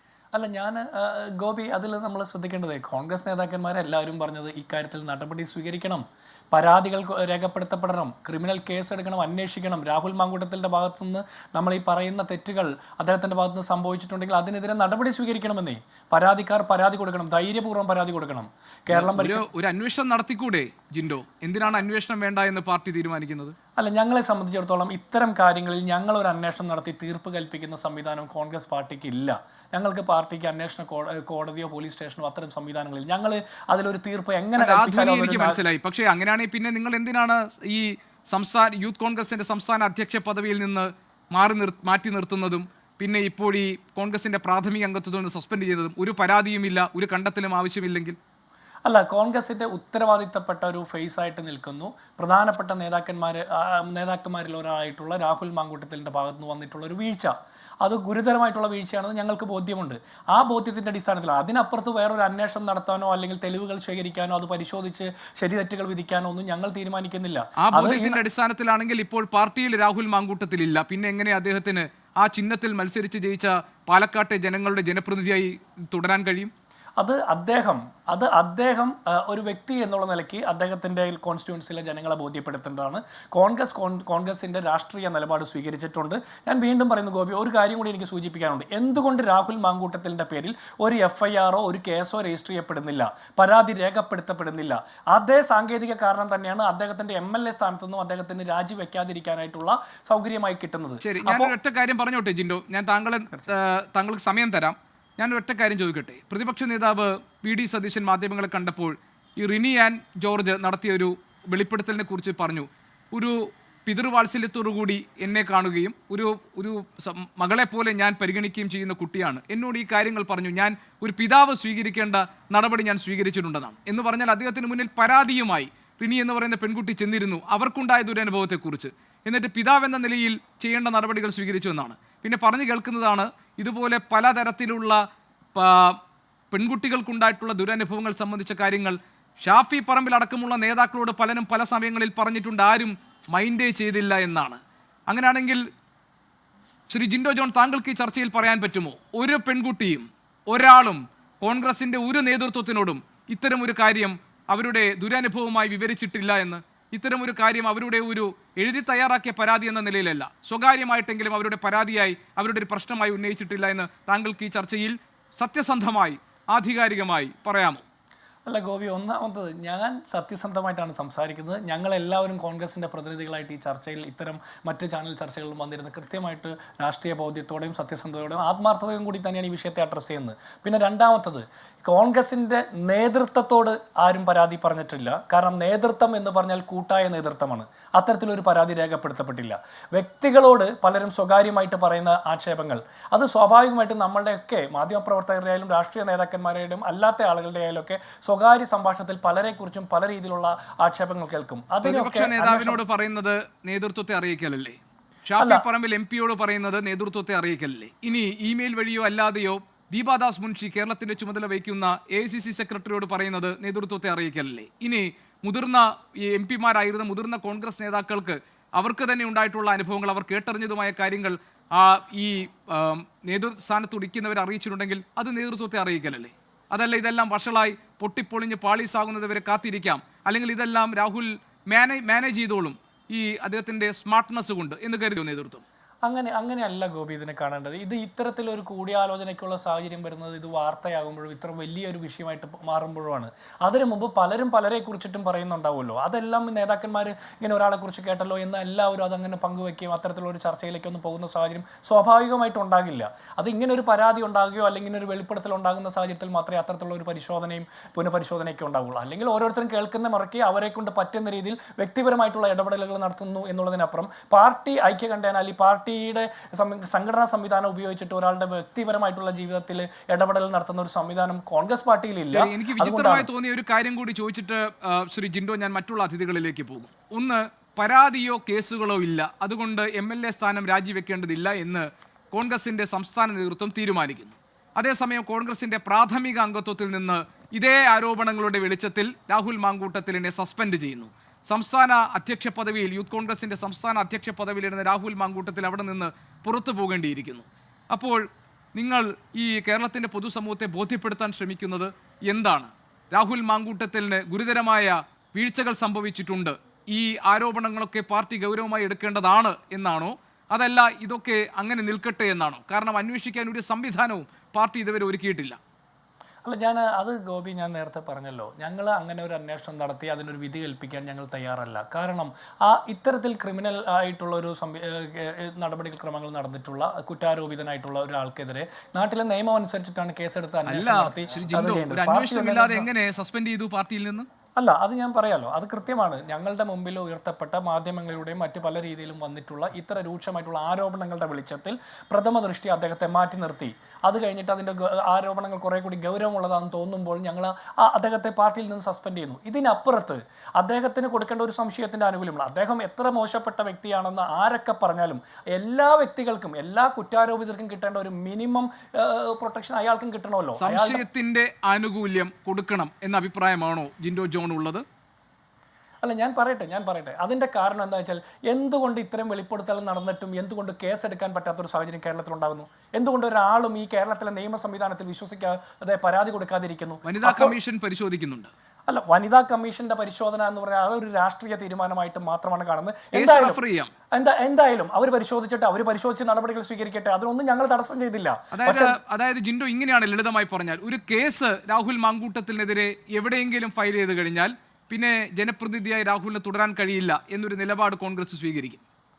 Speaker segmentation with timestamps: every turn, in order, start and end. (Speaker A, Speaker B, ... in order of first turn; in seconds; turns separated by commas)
Speaker A: 0.3-19.5, Speaker B: 18.9-23.6, Speaker A: 23.8-35.6, Speaker B: 34.6-48.2, Speaker A: 48.9-68.2, Speaker B: 67.6-76.5, Speaker A: 77.0-101.5, Speaker B: 101.0-135.0, Speaker B: 135.6-136.0, Speaker B: 136.5-145.6, Speaker B: 146.9-167.8, Speaker A: 168.5-202.8, Speaker B: 201.8-235.6, Speaker A: 205.4-205.6, Speaker A: 236.1-273.3, Speaker B: 272.3-298.2, Speaker B: 298.8-315.6, Speaker A: 316.4-332.9, Speaker B: 330.7-334.3, Speaker A: 334.6-361.0, Speaker B: 360.6-364.8, Speaker A: 366.0-377.6, Speaker B: 377.1-378.5, Speaker A: 378.9-383.6, Speaker B: 383.1-383.9, Speaker A: 384.1-389.0, Speaker B: 388.5-398.8